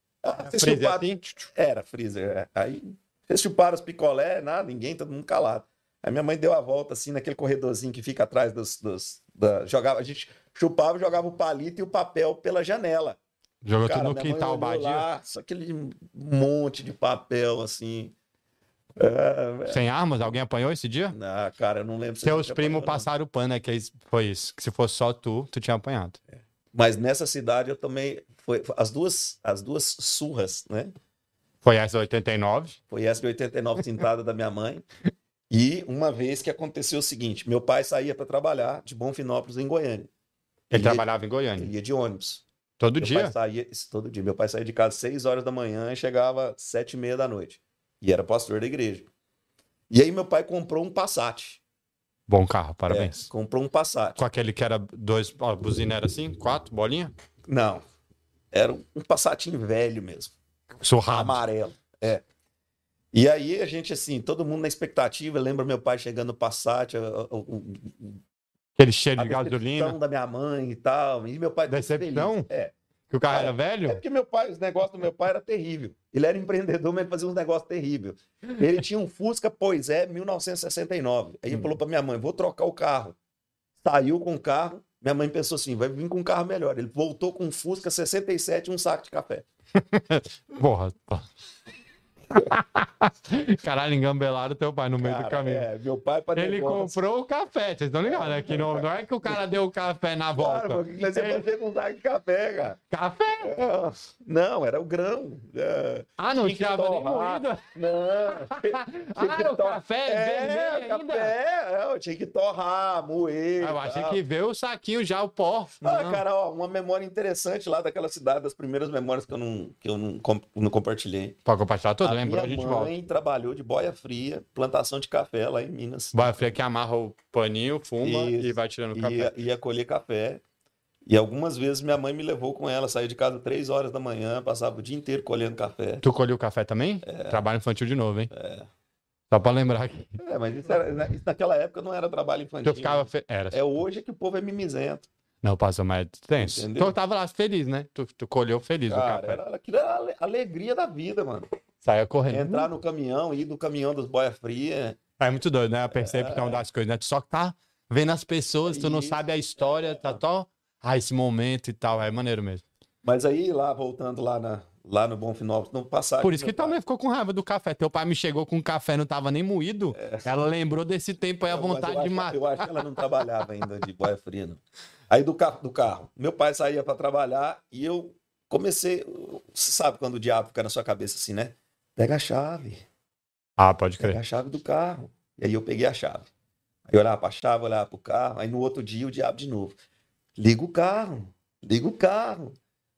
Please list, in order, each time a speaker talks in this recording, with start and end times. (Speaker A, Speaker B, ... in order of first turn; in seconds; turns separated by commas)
Speaker A: 0.2-13.2, Speaker B: 0.5-1.4, Speaker B: 13.6-15.1, Speaker A: 13.8-18.1, Speaker A: 19.0-19.8, Speaker B: 19.7-21.1, Speaker A: 21.1-23.1, Speaker B: 22.2-26.2, Speaker A: 26.7-30.9, Speaker B: 31.6-32.8, Speaker A: 32.9-34.8, Speaker A: 35.5-40.1, Speaker B: 40.7-41.7, Speaker A: 40.7-42.4, Speaker B: 42.8-43.3, Speaker A: 43.0-49.1, Speaker A: 49.9-51.6, Speaker B: 52.3-53.3, Speaker A: 52.9-54.2, Speaker B: 54.2-57.1, Speaker A: 57.5-57.8, Speaker A: 58.5-60.3, Speaker B: 60.8-61.4, Speaker A: 61.1-62.2, Speaker A: 63.1-68.2, Speaker B: 68.8-70.0, Speaker A: 69.2-72.7, Speaker B: 71.7-72.5, Speaker B: 73.1-74.0, Speaker A: 73.3-83.2, Speaker A: 83.8-89.4, Speaker B: 89.8-91.3, Speaker B: 92.3-95.7, Speaker A: 95.0-97.0, Speaker B: 96.3-101.4, Speaker A: 98.0-99.4, Speaker A: 100.4-102.8, Speaker B: 102.9-103.5, Speaker A: 103.4-114.2, Speaker B: 106.2-107.7, Speaker B: 108.5-111.3, Speaker B: 113.6-116.2, Speaker A: 115.8-121.3, Speaker B: 121.5-122.9, Speaker A: 122.0-126.3, Speaker B: 126.1-129.3, Speaker A: 128.0-130.4, Speaker A: 131.1-136.0, Speaker B: 136.0-138.3, Speaker A: 137.0-137.4, Speaker A: 138.3-138.7, Speaker B: 139.3-140.2, Speaker A: 140.2-145.1, Speaker B: 142.6-143.6, Speaker B: 145.4-149.4, Speaker A: 146.4-146.9, Speaker A: 148.9-151.4, Speaker B: 151.8-152.7, Speaker A: 152.3-155.0, Speaker B: 155.2-162.6, Speaker A: 155.9-156.6, Speaker A: 158.7-160.2, Speaker A: 163.0-166.8, Speaker B: 166.2-172.7, Speaker A: 169.9-170.3, Speaker A: 171.5-182.8, Speaker B: 183.6-184.2, Speaker A: 184.0-186.3, Speaker A: 186.9-189.8, Speaker A: 190.3-192.6